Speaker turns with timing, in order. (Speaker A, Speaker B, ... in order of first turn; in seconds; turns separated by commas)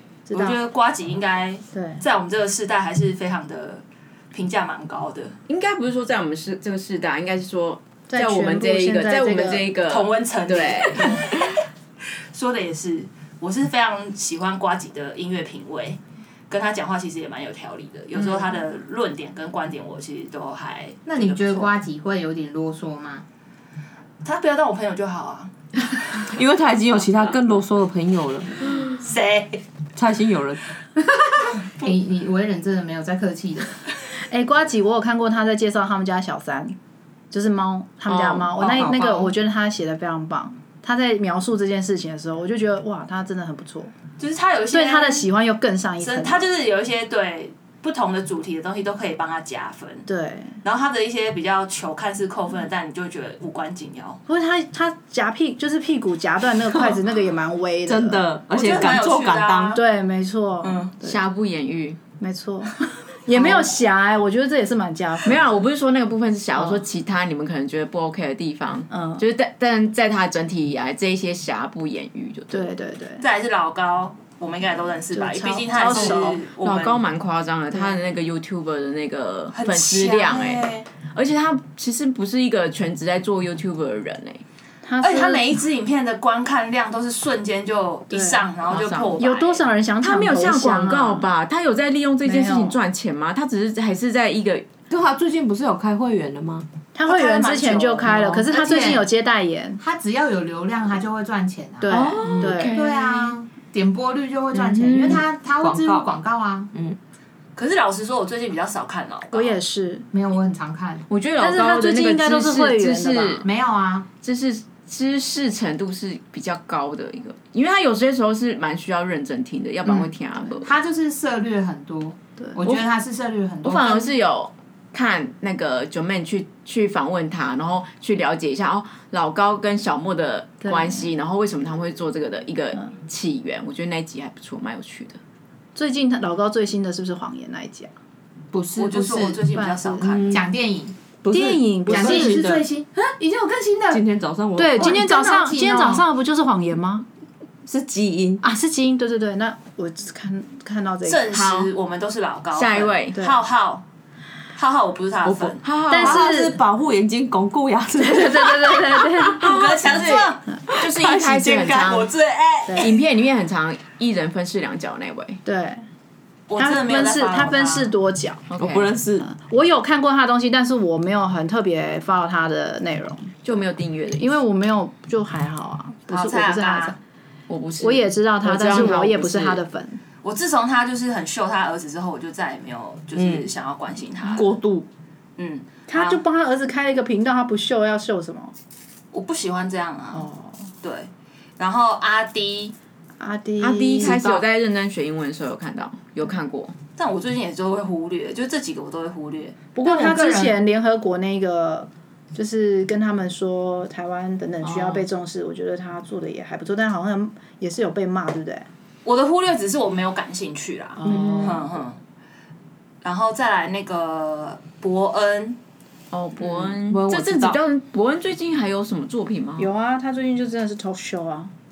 Speaker A: 0.3-0.6, Speaker B: 0.3-5.3, Speaker A: 1.7-2.0, Speaker C: 5.5-11.5, Speaker A: 8.1-9.7, Speaker B: 9.9-11.4, Speaker B: 12.3-16.0, Speaker B: 16.5-21.7, Speaker D: 21.1-23.2, Speaker B: 24.2-26.3, Speaker E: 26.3-28.8, Speaker B: 28.8-29.6, Speaker E: 29.9-30.6, Speaker D: 31.6-33.8, Speaker A: 34.3-36.8, Speaker A: 37.3-43.9, Speaker C: 38.1-38.5, Speaker D: 38.6-39.3, Speaker B: 44.2-45.3, Speaker A: 44.7-46.4, Speaker B: 46.0-50.1, Speaker A: 50.1-50.5, Speaker B: 50.6-54.2, Speaker A: 54.3-58.2, Speaker E: 56.6-57.0, Speaker E: 57.9-59.8, Speaker B: 58.5-59.8, Speaker A: 59.7-61.2, Speaker B: 60.6-60.9, Speaker C: 61.0-62.0, Speaker A: 62.2-65.4, Speaker B: 63.3-63.6, Speaker C: 65.2-72.7, Speaker A: 66.5-66.8, Speaker A: 68.9-69.2, Speaker A: 72.5-73.2, Speaker B: 73.2-77.0, Speaker A: 75.1-76.4, Speaker C: 75.9-84.4, Speaker A: 77.7-78.0, Speaker B: 79.5-80.9, Speaker A: 84.8-85.6, Speaker B: 85.0-89.6, Speaker A: 88.1-88.4, Speaker C: 88.7-89.2, Speaker A: 89.2-91.3, Speaker C: 90.0-94.7, Speaker A: 92.2-92.8, Speaker E: 94.9-96.7, Speaker A: 96.9-99.8, Speaker B: 97.0-98.8, Speaker D: 98.5-99.1, Speaker D: 99.8-106.7, Speaker A: 101.8-102.8, Speaker C: 101.8-103.3, Speaker C: 104.5-105.2, Speaker E: 105.1-106.1, Speaker B: 107.6-109.6, Speaker A: 109.3-110.1, Speaker D: 110.1-111.1, Speaker C: 111.1-113.5, Speaker A: 111.4-113.4, Speaker D: 113.4-114.1, Speaker C: 114.2-120.7, Speaker A: 119.8-120.5, Speaker D: 120.6-124.1, Speaker A: 122.4-122.7, Speaker C: 123.6-135.2, Speaker A: 130.6-131.1, Speaker A: 135.7-137.9, Speaker E: 138.5-139.4, Speaker B: 138.8-140.4, Speaker A: 139.5-140.3, Speaker E: 140.1-140.5, Speaker D: 140.3-140.9, Speaker E: 141.2-142.7, Speaker A: 141.3-142.4, Speaker D: 141.9-144.0, Speaker E: 143.9-145.1, Speaker A: 144.6-147.0, Speaker D: 144.7-146.0, Speaker E: 147.7-148.4, Speaker A: 148.4-151.2, Speaker B: 151.0-153.8, Speaker C: 151.3-151.7, Speaker C: 152.5-153.2, Speaker B: 154.6-155.6, Speaker E: 155.2-159.6, Speaker C: 155.6-156.3, Speaker A: 155.9-156.6, Speaker A: 158.0-160.6, Speaker B: 159.4-160.4, Speaker C: 159.5-162.1, Speaker E: 160.7-162.0, Speaker B: 161.8-162.9, Speaker A: 162.7-163.0, Speaker C: 162.8-165.4, Speaker A: 165.4-165.8, Speaker B: 166.5-167.9, Speaker A: 166.6-168.4, Speaker C: 168.5-168.9, Speaker E: 168.6-169.2, Speaker A: 169.2-173.3, Speaker C: 173.4-174.3, Speaker A: 174.2-176.9, Speaker B: 176.1-176.9, Speaker C: 177.5-179.6, Speaker A: 177.8-180.0, Speaker B: 180.2-184.5, Speaker E: 183.1-183.5, Speaker E: 184.2-184.9, Speaker B: 185.4-186.2, Speaker A: 185.9-188.5, Speaker B: 189.1-190.2, Speaker A: 190.1-190.6, Speaker B: 190.8-192.7, Speaker A: 193.2-194.2, Speaker C: 193.6-196.7, Speaker D: 194.0-194.4, Speaker B: 197.0-199.6, Speaker A: 199.7-208.7, Speaker D: 199.8-200.6, Speaker C: 204.6-205.1, Speaker B: 209.0-212.0, Speaker A: 211.0-211.6, Speaker C: 211.0-211.6, Speaker B: 213.0-215.6, Speaker C: 216.1-219.7, Speaker E: 216.9-217.6, Speaker A: 219.6-221.5